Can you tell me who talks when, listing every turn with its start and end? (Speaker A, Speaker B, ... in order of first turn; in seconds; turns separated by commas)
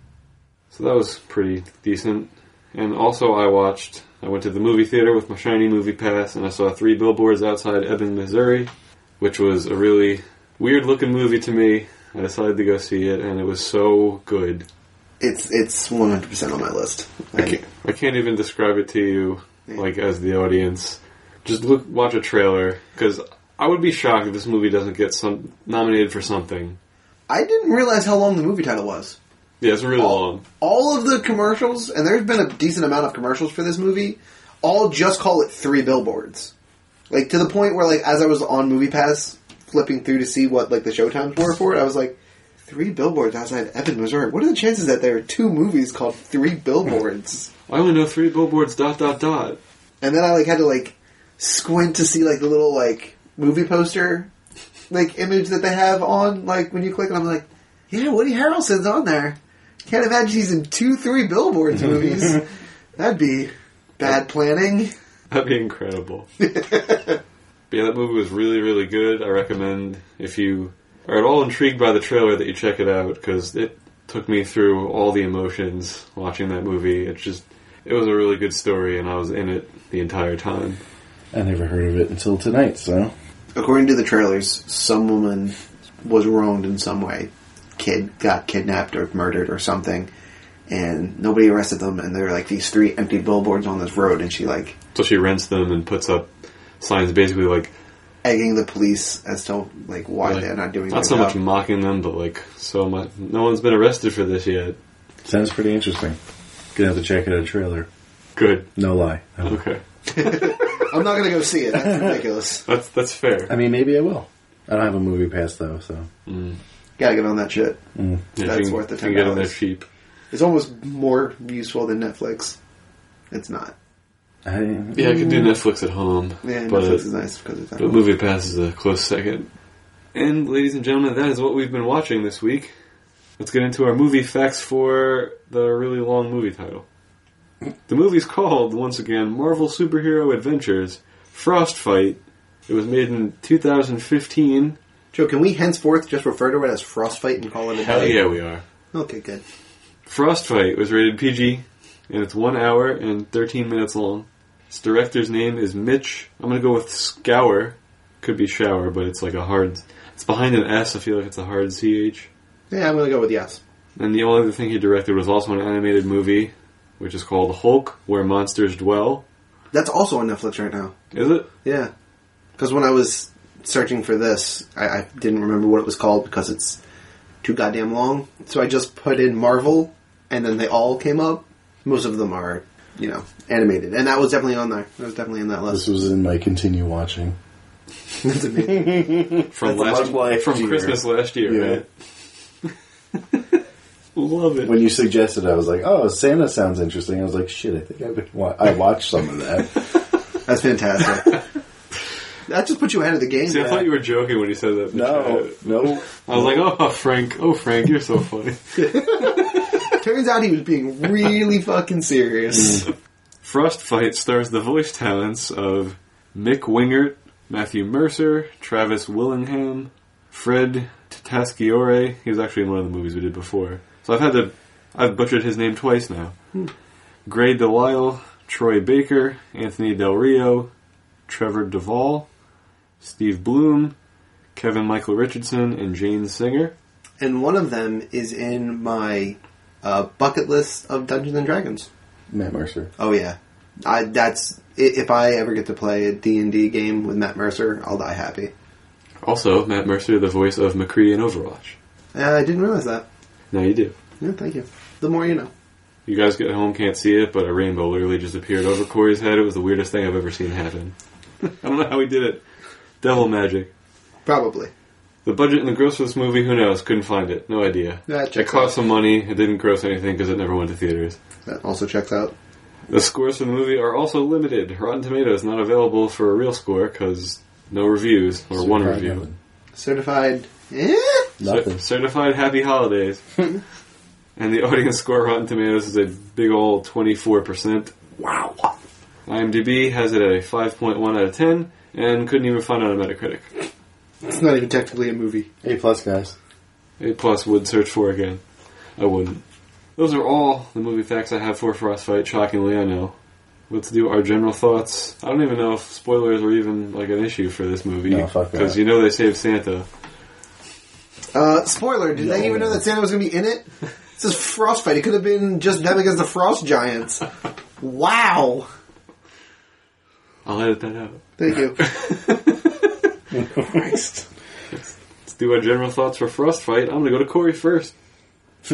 Speaker A: 0.7-14.7, Speaker B: 15.2-17.6, Speaker A: 17.3-26.8, Speaker B: 27.3-29.2, Speaker A: 29.6-30.4, Speaker B: 30.0-36.5, Speaker B: 37.1-47.5, Speaker A: 47.7-49.6, Speaker B: 50.0-54.3, Speaker B: 54.9-64.9, Speaker A: 65.3-66.3, Speaker B: 66.4-67.2, Speaker A: 67.7-80.8, Speaker C: 81.3-83.1, Speaker B: 83.5-90.1, Speaker B: 90.7-94.7, Speaker A: 94.9-96.3, Speaker A: 96.8-97.7, Speaker B: 98.2-101.4, Speaker A: 100.2-104.8, Speaker C: 105.2-106.2, Speaker C: 106.7-107.9, Speaker A: 108.3-108.7, Speaker C: 108.8-109.6, Speaker A: 109.4-110.8, Speaker B: 110.1-112.6, Speaker C: 111.8-112.2, Speaker A: 112.7-113.5, Speaker C: 113.5-116.1, Speaker A: 116.2-116.6, Speaker B: 117.0-117.8, Speaker C: 117.9-118.3, Speaker A: 118.3-119.8, Speaker B: 118.4-119.5, Speaker B: 120.3-122.6, Speaker B: 123.3-123.7, Speaker C: 124.4-125.5, Speaker A: 124.9-127.0, Speaker B: 126.4-127.9, Speaker A: 127.8-129.5, Speaker A: 130.1-132.7, Speaker A: 133.4-136.8, Speaker A: 137.9-144.8, Speaker B: 145.1-148.2, Speaker A: 147.7-148.6, Speaker B: 148.9-149.4, Speaker A: 150.1-162.3, Speaker B: 162.7-163.6, Speaker A: 163.9-169.2, Speaker B: 169.7-170.9, Speaker A: 171.1-171.5, Speaker B: 171.6-171.9, Speaker B: 172.6-176.8, Speaker B: 177.4-185.9, Speaker C: 185.7-187.4, Speaker B: 188.2-189.3, Speaker C: 188.7-191.8, Speaker A: 189.5-191.8, Speaker A: 194.1-194.8, Speaker C: 194.6-199.8, Speaker B: 200.4-201.4, Speaker B: 202.5-203.8, Speaker A: 203.5-209.3, Speaker C: 203.6-203.8, Speaker C: 204.9-206.6, Speaker B: 208.8-212.9, Speaker A: 213.4-226.3, Speaker A: 227.2-230.7, Speaker A: 231.3-232.3, Speaker A: 233.0-233.9, Speaker A: 234.5-236.7, Speaker B: 237.2-241.9, Speaker C: 242.3-242.9, Speaker B: 243.0-248.5, Speaker A: 249.2-251.8, Speaker B: 252.1-253.0, Speaker A: 253.5-253.9, Speaker B: 254.2-255.5, Speaker A: 256.1-262.4, Speaker A: 263.0-263.7, Speaker B: 264.2-264.7, Speaker A: 265.2-271.2, Speaker B: 268.1-268.8, Speaker B: 271.4-272.3, Speaker A: 272.9-279.2, Speaker C: 278.6-279.4, Speaker B: 279.7-281.3, Speaker C: 281.4-281.8, Speaker A: 281.4-283.5, Speaker A: 284.4-287.9, Speaker C: 288.2-288.6, Speaker A: 289.3-293.5, Speaker B: 294.2-295.5, Speaker C: 295.6-296.3, Speaker A: 297.0-298.4, Speaker A: 299.0-299.4, Speaker A: 299.9-303.1, Speaker A: 303.7-309.9, Speaker C: 308.1-308.8, Speaker B: 311.3-317.2, Speaker C: 312.1-312.8, Speaker B: 317.8-318.7, Speaker A: 320.4-322.9, Speaker B: 321.4-321.8, Speaker C: 323.3-324.2, Speaker B: 323.6-324.1, Speaker A: 324.7-327.9